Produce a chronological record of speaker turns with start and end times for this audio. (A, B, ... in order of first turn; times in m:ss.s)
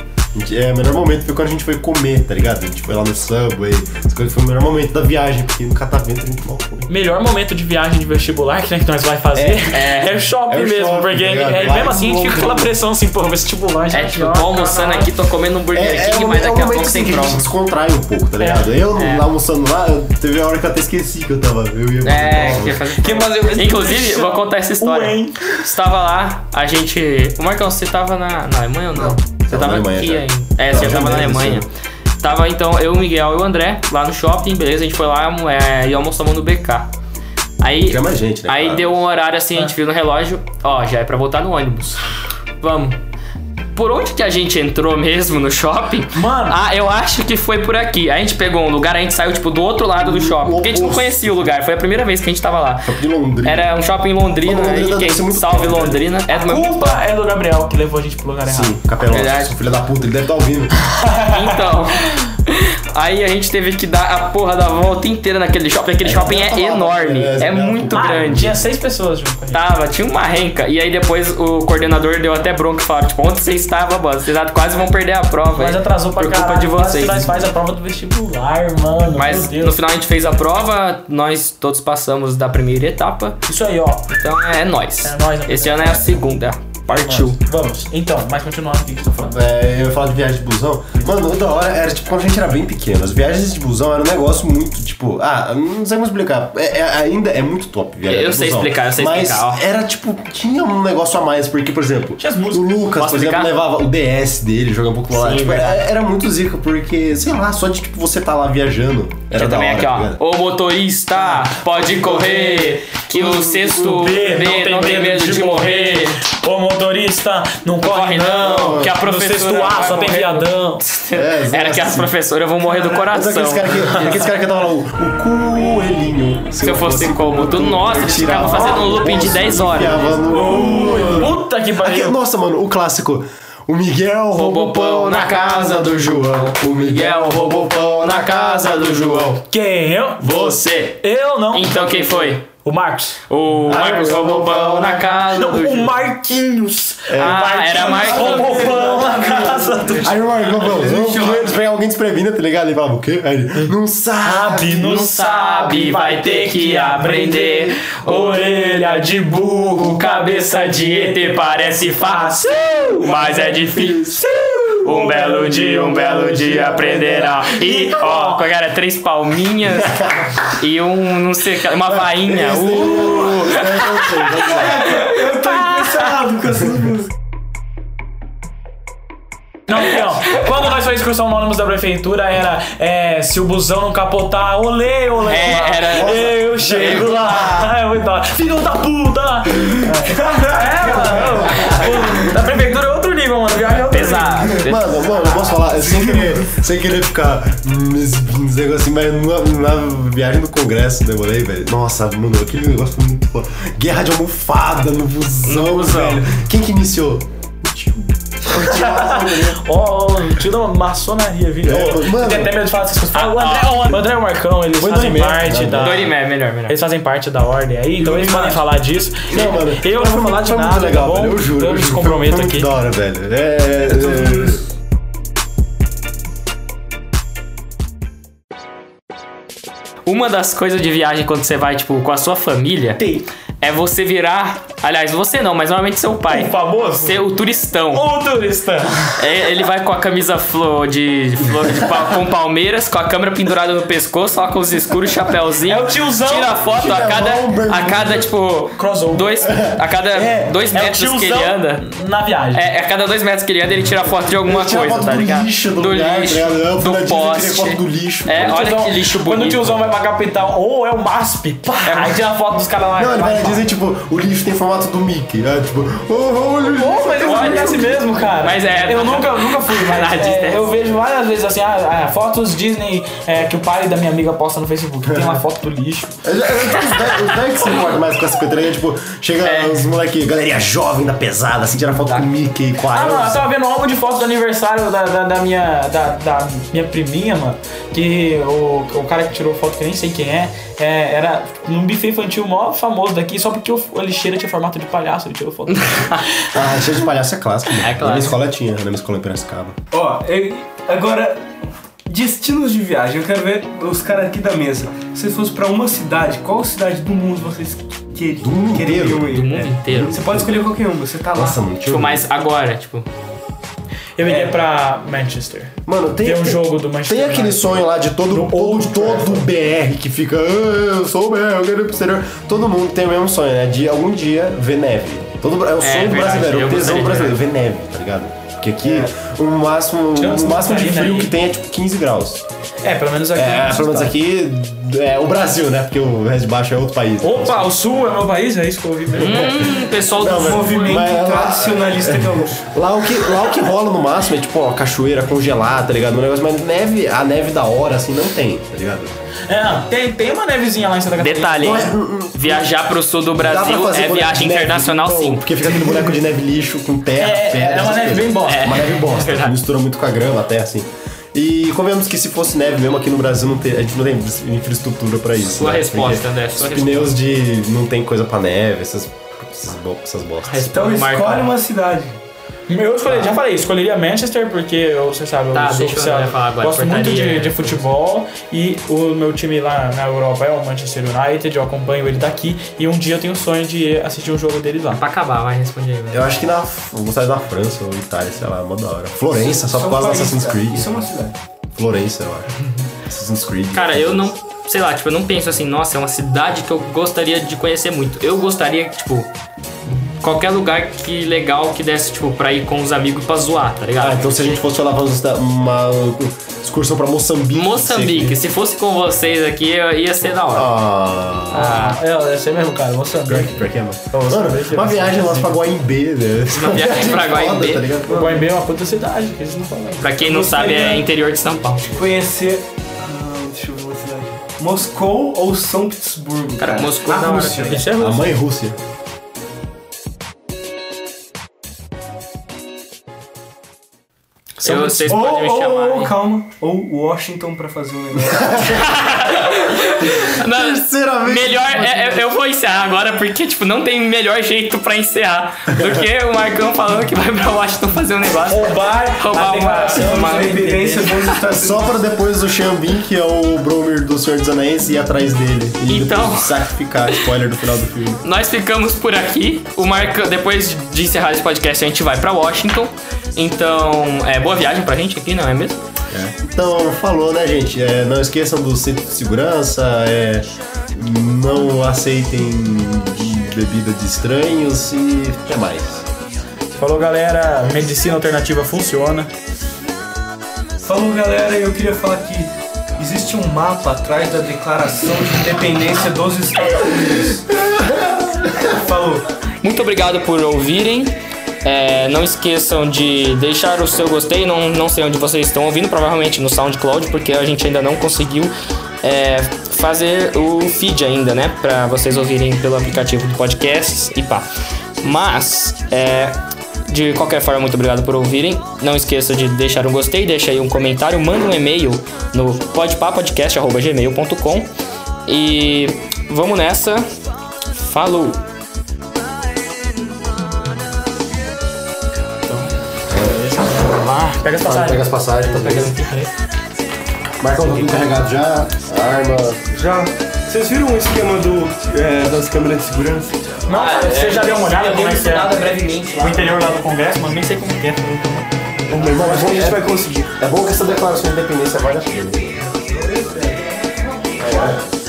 0:00.3-0:06.9 A
0:06.9-0:15.1 B
0:09.3-0:09.7 A
0:09.7-0:10.2 C
0:10.5-0:12.8 A
0:13.9-0:17.5 C
0:15.7-0:22.9 A
0:18.4-0:18.8 B
0:18.9-0:19.3 C
0:22.0-0:31.7 C
0:23.0-0:25.4 B
0:28.9-0:31.7 A
0:32.2-0:36.9 C
0:37.6-0:42.0 C
0:37.8-0:39.0 A
0:42.6-0:43.0 C
0:43.7-0:57.0 C
0:46.1-0:46.6 B
0:50.0-0:51.5 A
0:52.8-0:53.7 A
0:54.4-0:56.0 A
0:56.3-0:58.8 B
0:58.4-1:00.7 A
0:59.0-0:59.6 C
1:00.9-1:01.7 B
1:01.2-1:08.6 C
1:06.0-1:08.6 A
1:07.9-1:09.6 B
1:09.5-1:17.3 C
1:15.5-1:19.8 B
1:19.2-1:23.4 C
1:23.5-1:24.1 B
1:24.1-1:27.4 C
1:25.0-1:26.3 B
1:26.9-1:29.4 B
1:29.2-1:50.2 A
1:38.1-1:39.6 C
1:42.2-1:42.7 B
1:43.0-1:43.5 C
1:45.1-1:45.8 C
1:49.3-1:56.2 C
1:51.2-1:54.1 A
1:53.7-2:00.8 B
1:57.8-2:04.3 C
1:58.5-1:58.9 A
2:01.1-2:02.1 A
2:02.7-2:19.4 A
2:06.5-2:10.2 C
2:10.3-2:11.3 D
2:10.3-2:12.2 B
2:14.3-2:19.4 C
2:19.5-2:23.8 B
2:20.2-2:22.4 C
2:23.3-2:26.0 C
2:23.6-2:25.2 A
2:25.3-2:30.1 B
2:27.1-2:35.0 A
2:27.1-2:29.0 C
2:28.9-2:29.8 D
2:30.3-2:31.5 C
2:34.2-2:48.4 B
2:34.8-2:42.4 C
2:43.0-2:44.2 C
2:43.3-2:44.2 A
2:44.8-2:54.5 C
2:49.7-2:50.3 A
2:51.9-2:55.0 A
2:54.4-2:57.1 D
2:55.3-2:56.0 C
2:59.7-3:14.5 B
3:05.2-3:07.6 C
3:05.5-3:07.6 A
3:10.0-3:11.9 D
3:13.9-3:15.5 C
3:14.6-3:29.6 A
3:15.4-3:16.4 D
3:25.4-3:26.4 C
3:28.5-3:36.1 B
3:31.6-3:32.6 A
3:33.1-3:34.0 C
3:34.8-3:36.1 A
3:35.8-3:36.8 C
3:36.7-3:42.7 B
3:38.0-3:38.6 D
3:39.3-3:44.6 A
3:43.9-3:44.6 D
3:50.0-3:53.0 C
3:53.0-3:53.3 B
3:53.6-3:58.1 C
3:56.3-3:57.2 B
3:57.9-3:59.2 B
3:59.2-4:11.8 C
4:05.6-4:06.5 B
4:06.6-4:08.3 A
4:08.8-4:09.5 B
4:09.4-4:09.7 A
4:10.1-4:12.6 B
4:12.5-4:19.9 C
4:14.4-4:18.7 A
4:18.4-4:23.6 B
4:21.8-4:22.2 C
4:23.0-4:28.0 A
4:26.8-4:36.2 B
4:27.1-4:30.7 C
4:35.1-4:35.4 A
4:36.2-4:43.5 A
4:36.8-4:37.9 C
4:39.4-4:39.9 C
4:42.0-4:42.3 C
4:42.9-4:56.2 B
4:55.7-4:56.3 C
4:56.5-4:59.8 A
4:57.8-4:58.4 C
4:59.9-5:11.6 D
5:08.4-5:10.7 A
5:09.3-5:10.3 C
5:11.3-5:12.2 A
5:11.9-5:13.1 C
5:14.2-5:19.4 B
5:14.2-5:14.6 D
5:15.8-5:32.4 A
5:25.8-5:27.4 C
5:28.8-5:29.1 D
5:30.2-5:31.3 B
5:32.8-5:34.1 B
5:33.3-5:37.7 A
5:37.2-5:39.6 B
5:39.2-5:40.9 C
5:39.2-5:49.1 A
5:40.3-5:42.6 D
5:40.4-5:41.1 B
5:49.5-5:51.9 B
5:51.2-5:55.4 C
5:51.6-5:52.8 A
5:53.4-6:10.7 A
5:57.2-5:58.8 B
5:58.4-5:59.5 C
6:05.4-6:07.2 C
6:10.4-6:11.5 C
6:10.7-6:12.2 D
6:12.7-6:25.0 B
6:13.0-6:13.3 A
6:15.5-6:17.8 C
6:24.9-6:26.4 C
6:26.1-6:30.9 A
6:29.3-6:31.4 D
6:31.8-6:32.5 A
6:33.0-6:34.3 A
6:33.7-6:39.3 C
6:40.2-6:44.3 C
6:44.0-6:48.4 A
6:47.5-6:50.7 C
6:50.5-6:51.7 A
6:51.5-6:52.0 C
6:51.5-6:55.6 B
6:53.2-6:58.4 A
6:56.5-6:57.9 C
6:58.0-7:01.0 B
6:58.1-6:58.4 D
7:00.0-7:02.0 C
7:01.9-7:07.9 D
7:06.6-7:07.8 C
7:07.5-7:08.3 B
7:08.0-7:08.8 A
7:14.6-7:16.2 C
7:14.6-7:15.2 B
7:15.0-7:18.8 D
7:18.3-7:19.0 A
7:18.7-7:30.7 C
7:20.0-7:22.1 A
7:25.8-7:26.0 A
7:28.5-7:31.2 B
7:29.9-7:32.0 D
7:31.5-7:38.2 A
7:35.8-7:37.4 C
7:38.2-7:45.8 C
7:46.1-7:56.1 A
7:56.8-7:59.3 B
8:00.8-8:07.5 D
8:08.6-8:09.2 D
8:09.6-8:18.5 C
8:19.0-8:24.4 C
8:25.0-8:34.7 C
8:35.3-8:37.1 C
8:37.7-8:38.4 C
8:42.5-8:45.0 B
8:43.1-8:43.9 A
8:44.6-8:46.0 A
8:45.6-8:46.3 B
8:47.4-8:49.7 A
8:49.7-8:53.6 D
8:53.7-8:55.5 B
8:53.7-8:56.7 C
8:56.2-8:58.5 B
8:58.9-9:00.3 D
8:58.9-9:02.6 A
9:02.7-9:04.7 D
9:04.4-9:04.9 A